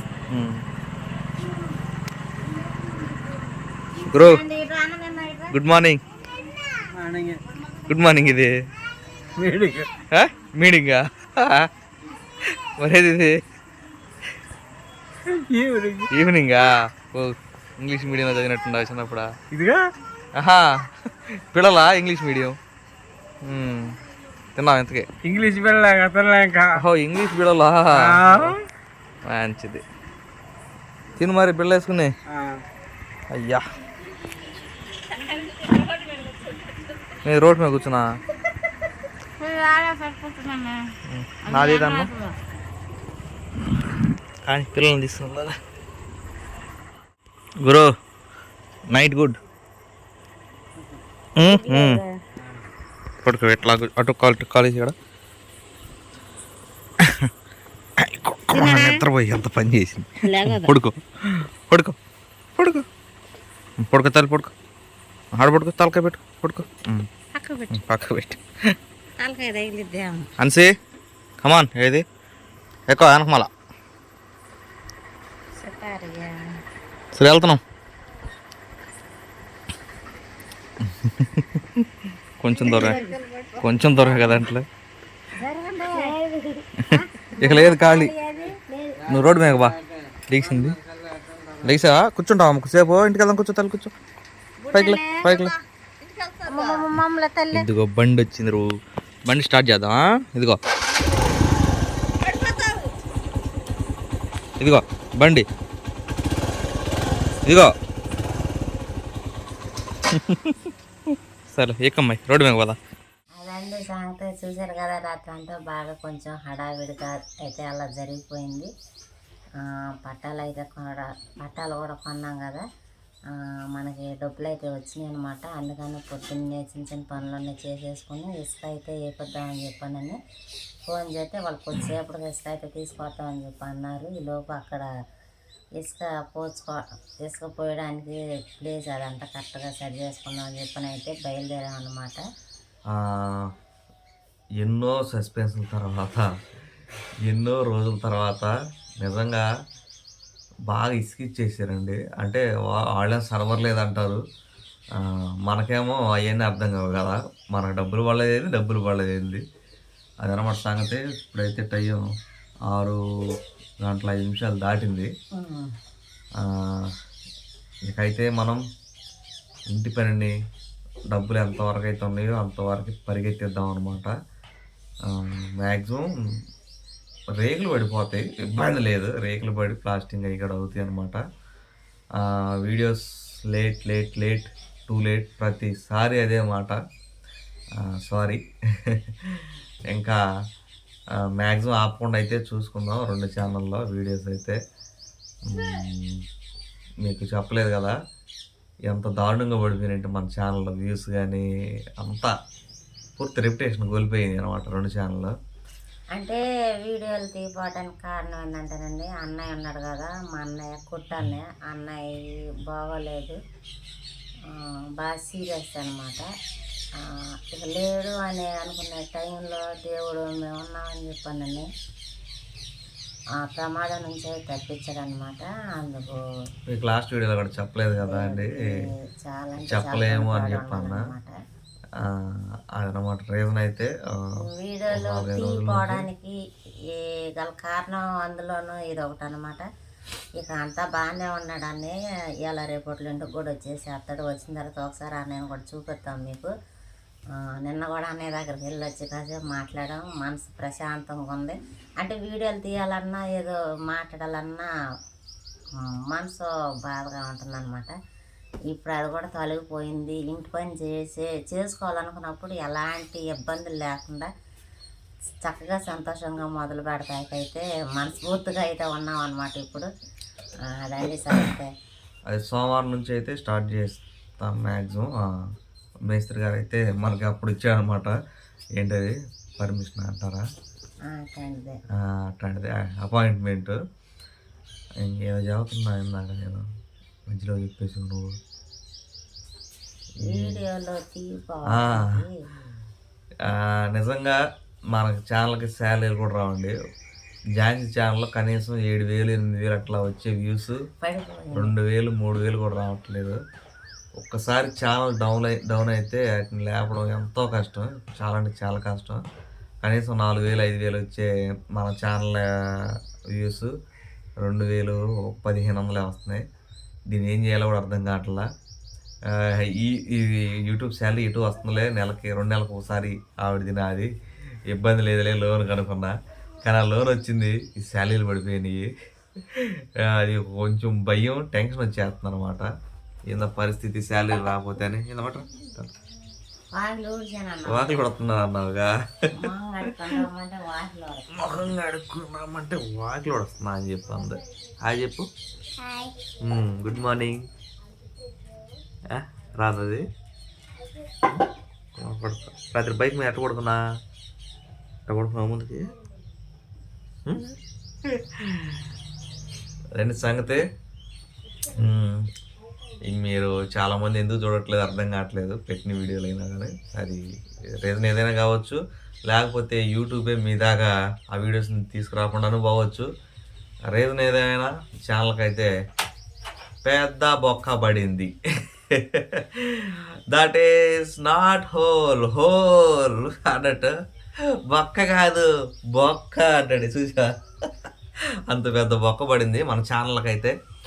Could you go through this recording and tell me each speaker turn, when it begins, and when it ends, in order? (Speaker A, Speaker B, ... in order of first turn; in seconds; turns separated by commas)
Speaker A: 0.3-0.6, Speaker A: 4.1-4.4, Speaker B: 4.2-5.5, Speaker A: 5.5-6.0, Speaker C: 7.0-7.4, Speaker A: 7.9-8.5, Speaker C: 9.4-9.9, Speaker A: 10.1-11.7, Speaker A: 12.8-13.3, Speaker C: 15.3-16.1, Speaker A: 16.1-19.6, Speaker A: 20.4-20.9, Speaker A: 21.5-22.6, Speaker A: 23.4-24.0, Speaker A: 24.6-25.1, Speaker C: 25.3-26.7, Speaker A: 26.7-28.6, Speaker A: 29.3-29.8, Speaker A: 31.2-32.1, Speaker A: 33.3-33.6, Speaker A: 37.2-38.0, Speaker B: 39.4-40.7, Speaker A: 41.1-42.1, Speaker B: 41.5-42.2, Speaker A: 44.5-45.5, Speaker A: 47.6-47.9, Speaker A: 48.9-49.4, Speaker A: 51.4-52.0, Speaker B: 51.5-52.1, Speaker A: 53.2-54.9, Speaker A: 57.0-57.3, Speaker A: 58.0-62.0, Speaker B: 58.5-59.0, Speaker B: 60.2-60.7, Speaker A: 62.6-62.9, Speaker A: 63.8-64.5, Speaker A: 65.4-67.1, Speaker B: 67.3-67.8, Speaker A: 67.7-68.4, Speaker B: 69.2-70.3, Speaker A: 70.4-70.7, Speaker A: 71.4-72.0, Speaker A: 72.9-73.5, Speaker B: 75.6-76.4, Speaker A: 77.1-77.6, Speaker A: 80.8-81.6, Speaker A: 82.4-83.0, Speaker B: 82.6-84.3, Speaker A: 83.6-84.7, Speaker B: 85.4-89.0, Speaker A: 86.9-88.1, Speaker A: 89.1-89.8, Speaker A: 90.3-90.8, Speaker A: 91.6-93.9, Speaker B: 94.6-95.5, Speaker A: 94.7-95.5, Speaker B: 96.4-97.7, Speaker A: 97.5-98.7, Speaker A: 99.3-100.6, Speaker A: 104.6-105.4, Speaker A: 107.5-107.7, Speaker A: 110.1-110.7, Speaker A: 111.5-112.8, Speaker B: 113.4-118.7, Speaker B: 119.6-122.6, Speaker B: 123.7-130.2, Speaker B: 130.9-134.9, Speaker B: 135.8-142.2, Speaker A: 142.9-143.5, Speaker A: 144.6-146.3, Speaker A: 147.2-149.5, Speaker A: 150.7-154.2, Speaker A: 155.0-159.4, Speaker A: 160.2-162.0, Speaker A: 162.7-163.0, Speaker A: 163.8-165.1, Speaker B: 165.4-165.7, Speaker A: 166.4-166.9, Speaker A: 167.9-168.6, Speaker A: 169.7-170.3, Speaker A: 171.1-174.1, Speaker A: 175.1-176.1, Speaker A: 177.4-181.2, Speaker A: 182.2-186.8, Speaker A: 187.8-190.2, Speaker A: 191.2-194.6, Speaker A: 195.5-196.2, Speaker A: 197.0-197.9, Speaker A: 198.9-201.5, Speaker A: 202.0-202.3, Speaker A: 203.2-205.3, Speaker B: 206.1-213.4, Speaker B: 215.0-216.2, Speaker B: 217.0-221.7, Speaker B: 223.4-226.2, Speaker A: 226.7-228.6, Speaker B: 228.1-228.5, Speaker B: 229.2-231.3, Speaker A: 229.7-231.0, Speaker A: 232.0-234.1, Speaker B: 234.4-236.3, Speaker A: 234.9-236.1, Speaker B: 236.9-239.6, Speaker B: 240.4-246.5, Speaker B: 247.6-254.7, Speaker B: 255.8-257.9, Speaker B: 258.7-264.3, Speaker B: 265.4-269.9, Speaker B: 270.7-271.7, Speaker A: 272.3-275.2, Speaker A: 276.1-278.1, Speaker A: 278.8-280.4, Speaker B: 281.1-281.8, Speaker A: 282.1-283.8, Speaker A: 285.0-286.6, Speaker A: 287.3-288.3, Speaker B: 290.3-292.3, Speaker A: 290.3-290.6, Speaker A: 291.7-292.2, Speaker A: 293.5-294.4, Speaker A: 294.9-296.8, Speaker A: 297.6-300.8, Speaker B: 301.0-301.7, Speaker A: 301.5-303.4, Speaker A: 304.2-309.2, Speaker A: 309.8-313.7, Speaker A: 314.4-316.4, Speaker A: 317.1-318.5, Speaker A: 319.3-324.1, Speaker A: 324.7-326.1, Speaker A: 326.6-328.9, Speaker A: 329.5-332.7, Speaker A: 333.3-335.9, Speaker B: 336.8-338.1, Speaker A: 337.7-339.5, Speaker B: 339.4-341.3, Speaker A: 341.4-345.3, Speaker A: 346.4-347.5, Speaker A: 349.1-350.0, Speaker A: 352.0-353.8, Speaker A: 355.1-355.8, Speaker A: 358.1-358.8, Speaker A: 360.0-360.6, Speaker A: 361.8-362.2, Speaker A: 363.1-367.2, Speaker A: 367.8-373.1, Speaker A: 373.9-375.7, Speaker A: 376.8-378.3, Speaker A: 378.8-383.9, Speaker A: 384.7-387.9, Speaker A: 388.5-390.5